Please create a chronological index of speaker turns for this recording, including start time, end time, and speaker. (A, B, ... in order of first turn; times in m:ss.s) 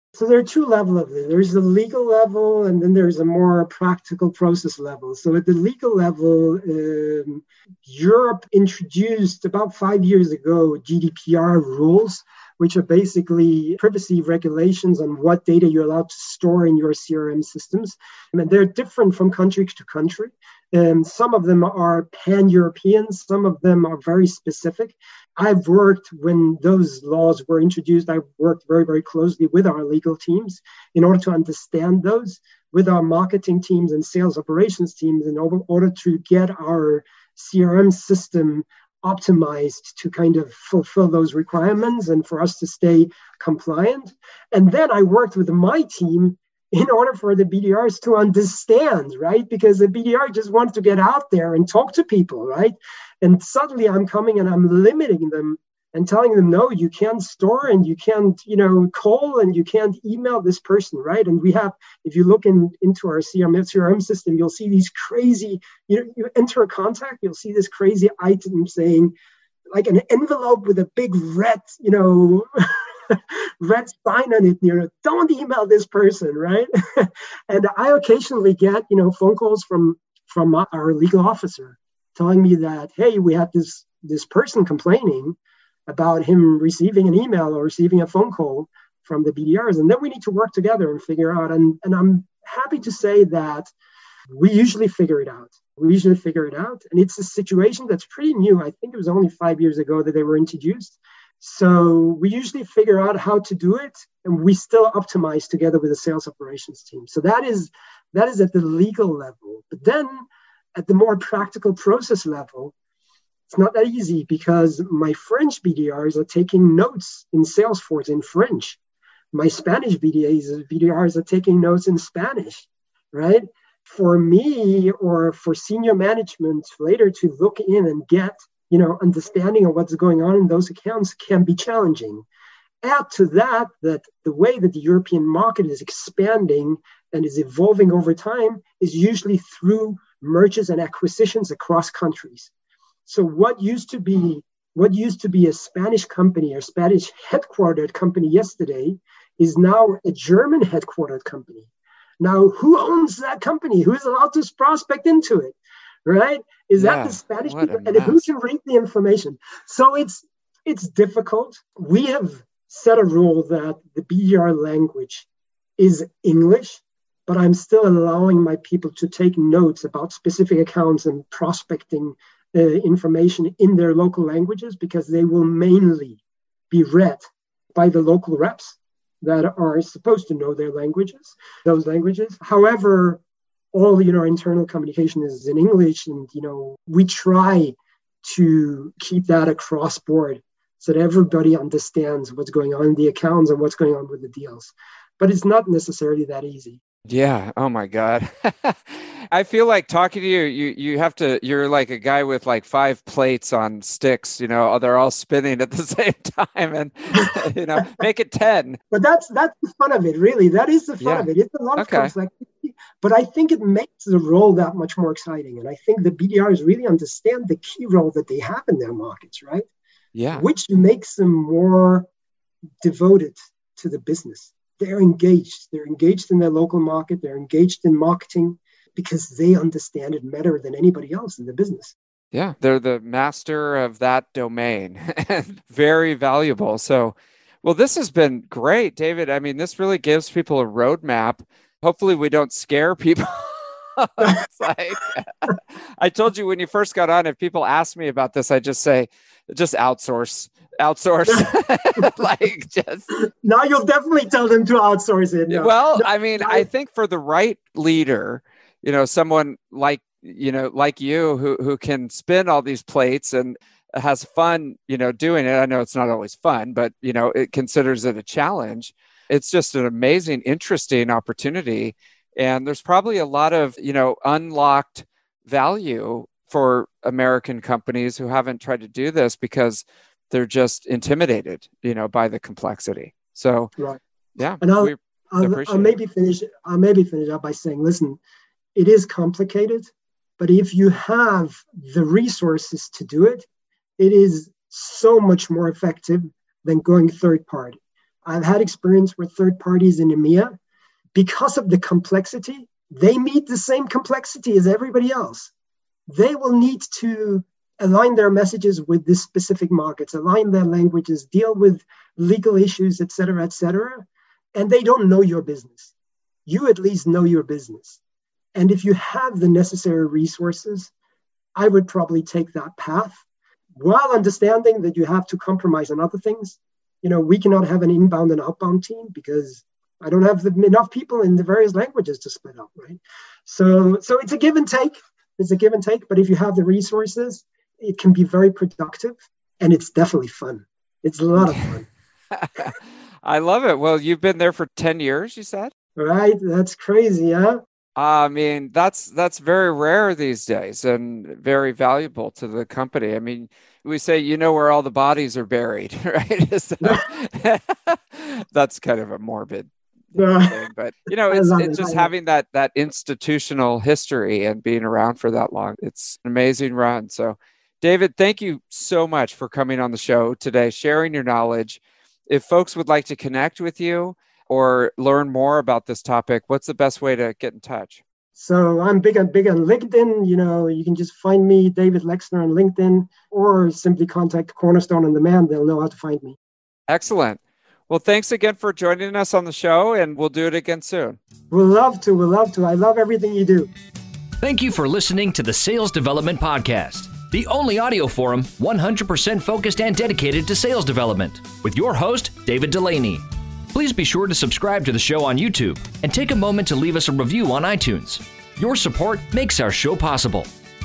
0:00.1-1:09.1 A
1:09.7-1:33.7 A
1:34.3-1:52.7 A
1:53.5-1:58.8 A
1:59.3-2:12.2 A
2:12.8-2:22.5 A
2:23.0-2:31.7 A
2:32.2-2:45.2 A
2:36.8-2:38.3 B
2:45.8-3:03.2 A
3:03.7-3:16.8 A
3:17.0-3:28.8 B
3:27.2-3:27.8 A
3:28.9-3:39.7 A
3:31.0-3:32.1 B
3:40.1-3:40.4 B
3:40.3-3:42.1 A
3:42.8-3:51.9 A
3:52.3-4:13.1 B
4:04.2-4:04.4 A
4:11.2-4:12.1 A
4:13.1-4:16.6 A
4:15.5-4:43.7 B
4:44.4-4:45.9 B
4:44.6-4:48.2 A
4:48.8-4:53.4 A
4:54.0-5:00.6 A
5:01.1-5:05.5 A
5:06.1-5:15.9 A
5:16.4-5:18.0 A
5:18.5-5:20.9 A
5:21.6-5:23.2 A
5:23.8-5:41.9 A
5:41.4-5:41.6 B
5:42.3-5:45.7 B
5:46.0-5:47.6 A
5:48.0-6:18.0 B
6:00.2-6:00.6 A
6:01.3-6:02.1 A
6:18.4-6:26.4 A
6:26.9-6:31.2 B
6:31.5-6:33.7 A
6:34.4-6:50.5 C